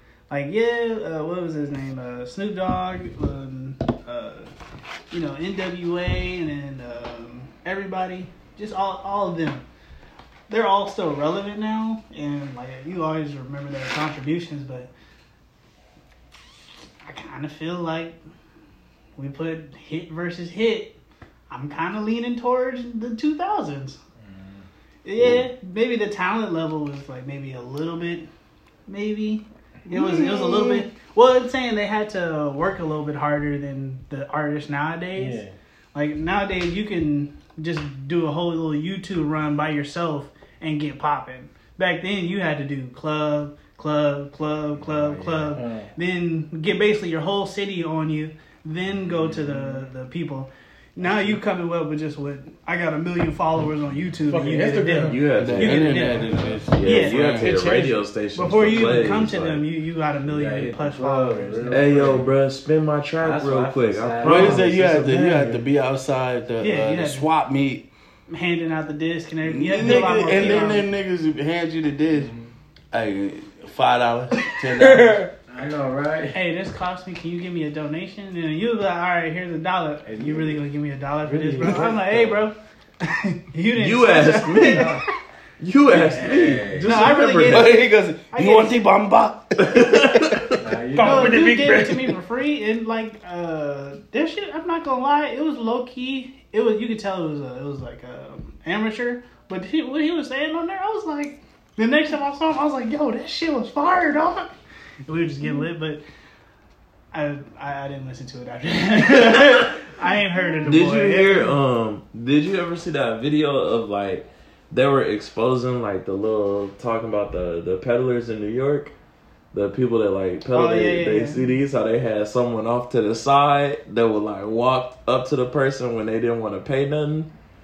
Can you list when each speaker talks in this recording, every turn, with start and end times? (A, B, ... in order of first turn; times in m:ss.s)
0:00.3-0:04.5 A
0:05.1-0:09.7 A
0:10.5-0:14.9 A
0:17.0-0:18.2 A
0:19.2-0:21.0 A
0:21.5-0:24.0 A
0:24.2-0:24.6 B
0:25.0-0:28.3 A
0:28.9-0:35.4 A
0:35.2-0:35.5 C
0:35.9-0:56.3 A
0:44.8-0:45.6 B
0:45.5-0:45.9 C
0:49.0-0:49.8 B
0:54.3-0:56.8 C
0:55.1-0:59.6 D
0:55.4-0:57.9 E
0:56.8-0:57.5 A
0:58.3-1:02.0 A
1:00.3-1:02.3 B
1:01.7-1:05.6 D
1:03.2-1:05.0 B
1:04.2-1:07.9 E
1:06.6-1:07.3 A
1:08.3-1:10.9 A
1:09.4-1:12.3 E
1:12.1-1:12.5 B
1:12.9-1:15.2 E
1:14.7-1:15.3 C
1:15.5-1:16.4 B
1:16.3-1:25.1 A
1:20.0-1:20.6 B
1:21.3-1:22.1 C
1:21.3-1:22.4 B
1:23.7-1:25.0 D
1:24.6-1:25.0 B
1:25.6-1:27.8 D
1:25.9-1:27.1 B
1:26.8-1:28.9 A
1:27.4-1:32.2 E
1:29.6-1:30.6 D
1:30.6-1:31.4 B
1:31.0-1:44.5 A
1:45.1-1:46.0 A
1:47.1-1:51.6 A
1:50.7-1:58.9 D
1:59.5-2:07.3 D
2:00.5-2:01.4 A